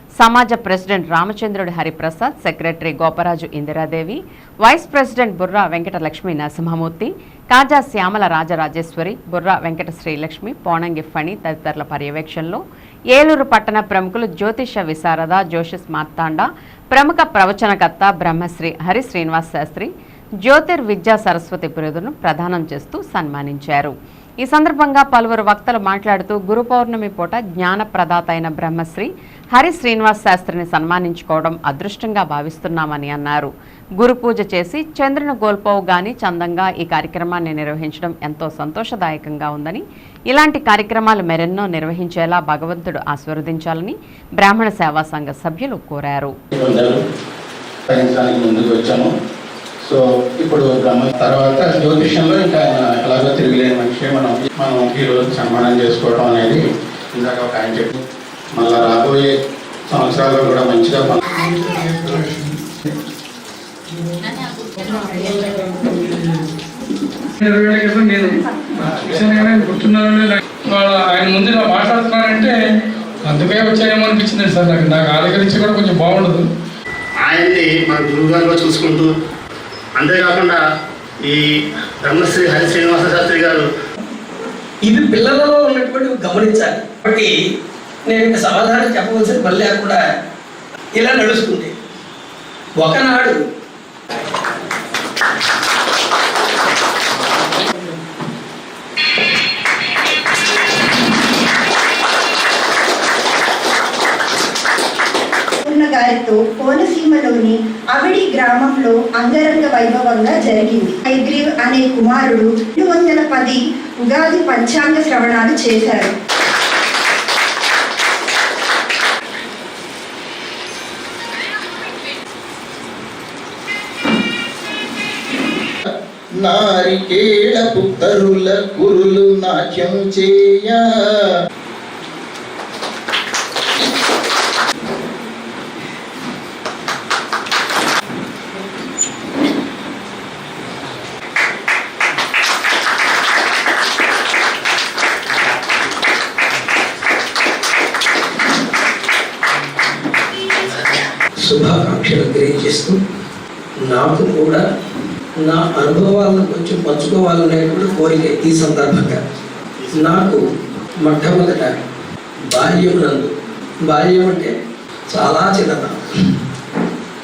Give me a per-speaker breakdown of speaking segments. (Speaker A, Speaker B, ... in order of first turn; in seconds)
Speaker A: 0.2-19.9, 20.4-46.3
Speaker B: 46.5-47.0, 47.9-49.1, 49.8-56.6, 57.1-58.0, 58.5-59.3, 59.9-61.2
Speaker C: 61.3-62.6, 63.9-66.4, 67.4-72.5, 73.2-76.4
Speaker D: 77.2-79.1, 80.0-80.6, 82.0-83.7
Speaker E: 84.8-87.3, 88.1-90.0, 91.0-91.7, 92.8-93.4, 151.4-153.0, 153.9-154.6, 155.4-159.2, 160.0-160.4, 161.0-161.8, 162.5-163.3, 163.9-164.5, 165.1-166.1
Speaker F: 105.6-116.1
Speaker G: 126.3-131.1